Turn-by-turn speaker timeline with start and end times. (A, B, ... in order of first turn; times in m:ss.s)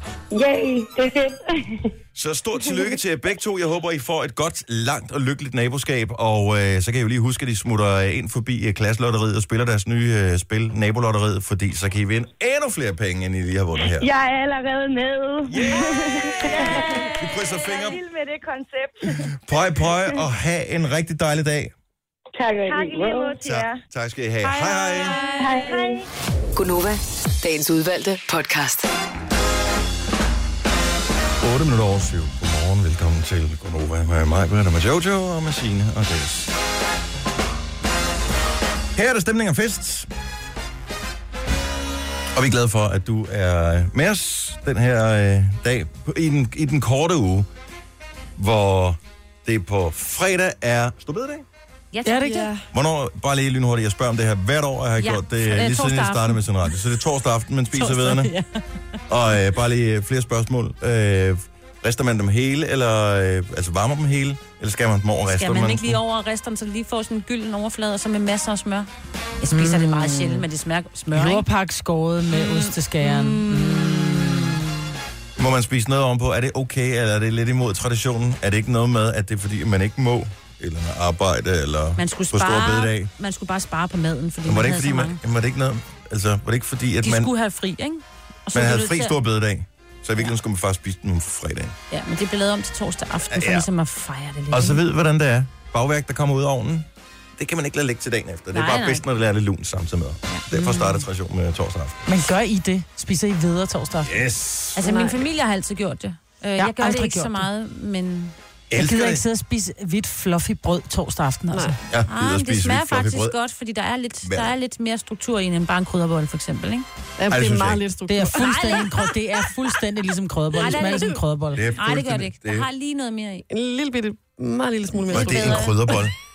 0:00.3-0:01.9 A
0:02.2-0:14.1 B
0:13.9-0:20.2 C
0:15.5-0:18.0 B
0:19.4-0:21.7 B
0:22.4-0:23.4 A
0:22.6-0:23.8 C
0:23.4-0:25.2 B
0:25.0-0:25.4 D
0:25.1-0:26.0 C
0:25.4-0:26.0 A
0:26.6-0:28.9 E
0:31.4-0:36.5 B
0:39.0-0:40.1 B
0:42.4-0:47.5 B
0:48.4-0:51.4 B
0:51.9-0:52.5 D
0:52.0-0:52.5 F
0:52.2-0:52.6 G
0:52.7-0:58.3 B
0:55.0-0:56.4 D
0:57.8-0:58.4 D
0:59.1-1:06.0 B
1:05.3-1:08.9 D
1:09.4-1:11.4 D
1:09.5-1:10.4 F
1:11.1-1:14.6 F
1:12.3-1:14.6 D
1:15.4-1:23.1 B
1:22.0-1:25.2 D
1:24.4-1:27.3 B
1:27.0-1:29.2 D
1:28.5-1:31.8 B
1:31.9-1:34.8 D
1:33.3-1:33.7 B
1:34.5-1:42.0 B
1:38.5-1:39.0 D
1:40.5-1:41.0 F
1:42.1-1:44.2 F
1:44.0-1:44.8 B
1:44.8-1:48.4 D
1:44.8-1:45.2 G
1:46.6-1:47.4 F
1:48.7-1:49.2 B
1:48.8-1:51.8 F
1:51.5-1:51.8 G
1:51.9-1:53.3 B
1:52.1-1:56.9 D
1:54.2-1:54.5 B
1:57.2-1:58.8 G
1:57.3-1:57.8 B
1:58.1-2:01.7 F
1:58.4-1:59.1 D
2:00.6-2:01.2 D
2:01.5-2:02.7 B
2:01.8-2:03.4 D
2:03.5-2:05.8 G
2:05.1-2:05.8 D
2:05.1-2:06.1 B